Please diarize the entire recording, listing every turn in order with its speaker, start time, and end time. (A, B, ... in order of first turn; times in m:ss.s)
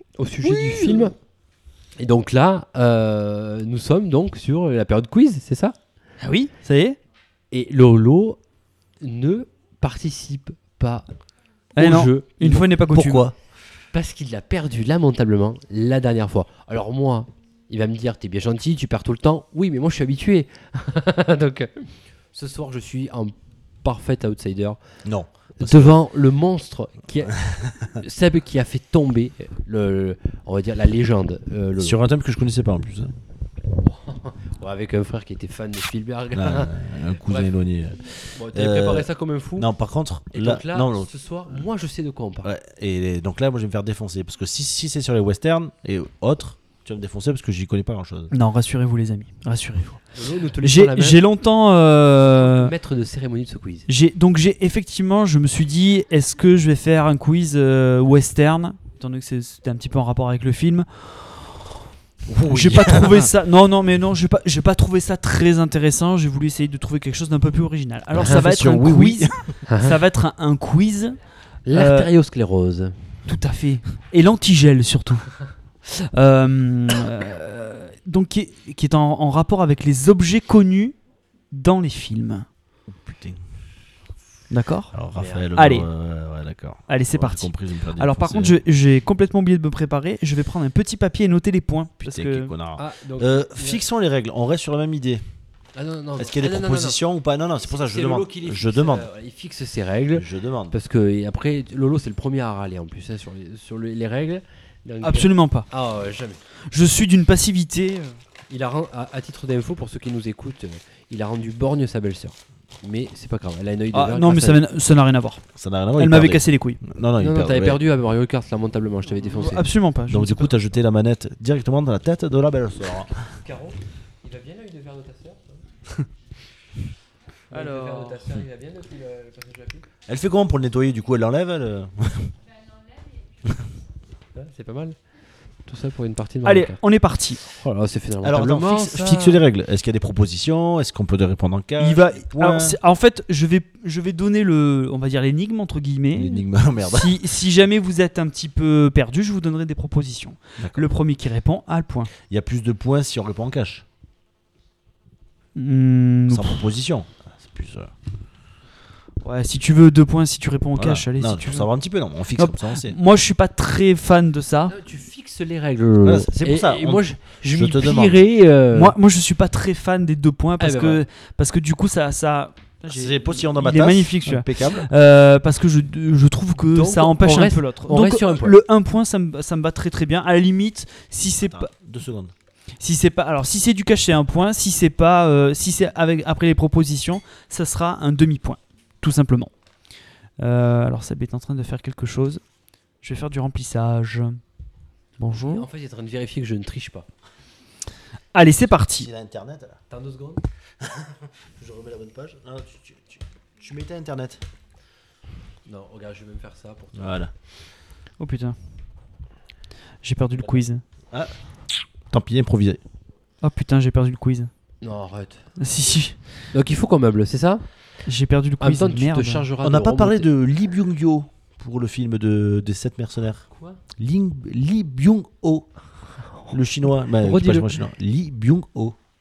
0:00.2-0:01.2 A
0:00.4-0:01.1 B
0:02.0-0:05.8 A
0:06.2-0:07.0 B
0:07.5-0:08.4 A
0:09.0-0:11.1 A
0:11.8-0:12.7 A
0:11.8-0:13.3 B
0:12.9-0:13.3 C
0:13.9-0:24.8 A
0:25.0-0:26.0 C
0:25.6-0:32.0 A
0:27.5-0:27.9 C
0:31.8-0:33.1 C
0:33.8-0:37.5 A
0:36.3-0:41.1 C
0:38.3-0:39.7 A
0:40.3-0:42.5 A
0:42.4-0:48.3 C
0:48.3-0:50.1 B
0:50.1-0:51.2 A
0:50.6-0:52.7 B
0:52.4-0:53.9 A
0:53.9-1:01.6 B
1:02.3-1:03.2 C
1:02.5-1:11.2 B
1:08.2-1:09.6 C
1:09.7-1:10.0 A
1:11.7-1:13.1 A
1:11.7-1:12.1 B
1:13.3-1:21.0 B
1:21.5-1:22.5 B
1:22.9-1:23.4 C
1:24.5-1:24.9 B
1:24.9-1:28.6 C
1:25.2-1:25.5 A
1:25.6-1:25.9 B
1:26.9-1:32.5 B
1:32.0-1:35.2 C
1:32.8-1:33.8 A
1:35.8-1:37.0 A
1:36.2-1:39.1 C
1:37.6-1:46.4 A
1:40.1-1:40.8 C
1:45.0-1:45.7 B
1:46.7-1:48.2 B
1:48.5-1:54.6 A
1:53.9-1:55.4 B
1:55.6-1:57.8 C
1:56.0-1:56.8 B
1:57.2-1:59.7 A
1:59.2-2:00.5 B
2:00.1-2:03.1 C
2:03.3-2:05.6 A
2:07.5-2:09.9 A
2:07.5-2:08.2 B
2:10.1-2:12.3 C
2:14.4-2:15.0 A
2:15.6-2:16.8 A
2:16.4-2:17.4 B
2:17.6-2:19.4 A
2:18.2-2:22.8 C
2:21.8-2:32.1 B
2:26.1-2:27.2 C
2:30.6-2:30.9 C
2:32.2-2:33.8 C
2:35.6-2:36.7 B
2:36.3-2:37.9 C
2:39.2-2:41.7 B
2:40.8-2:43.0 C
2:42.4-2:44.8 B
2:44.7-2:49.0 A
2:46.0-2:48.2 C
2:48.7-3:01.7 B
2:50.6-2:51.0 A
2:52.9-2:54.9 C
2:56.7-2:58.6 A
3:01.4-3:02.3 C
3:02.8-3:09.5 B
3:10.4-3:12.4 B
3:13.0-3:14.4 B
3:15.2-3:15.7 B
3:15.3-3:17.1 A
3:18.3-3:19.1 B
3:18.8-3:19.8 C
3:19.9-3:20.4 A
3:20.8-3:24.4 C
3:25.7-3:27.2 A
3:27.0-3:27.3 C
3:28.2-3:28.6 B
3:30.0-3:30.8 B
3:31.1-3:32.8 C
3:33.4-3:34.5 B
3:34.8-3:35.6 A
3:35.6-3:36.2 B
3:36.5-3:37.6 A
3:38.1-3:39.5 B
3:38.6-3:40.3 A
3:39.6-3:49.0 C
3:47.2-3:47.7 A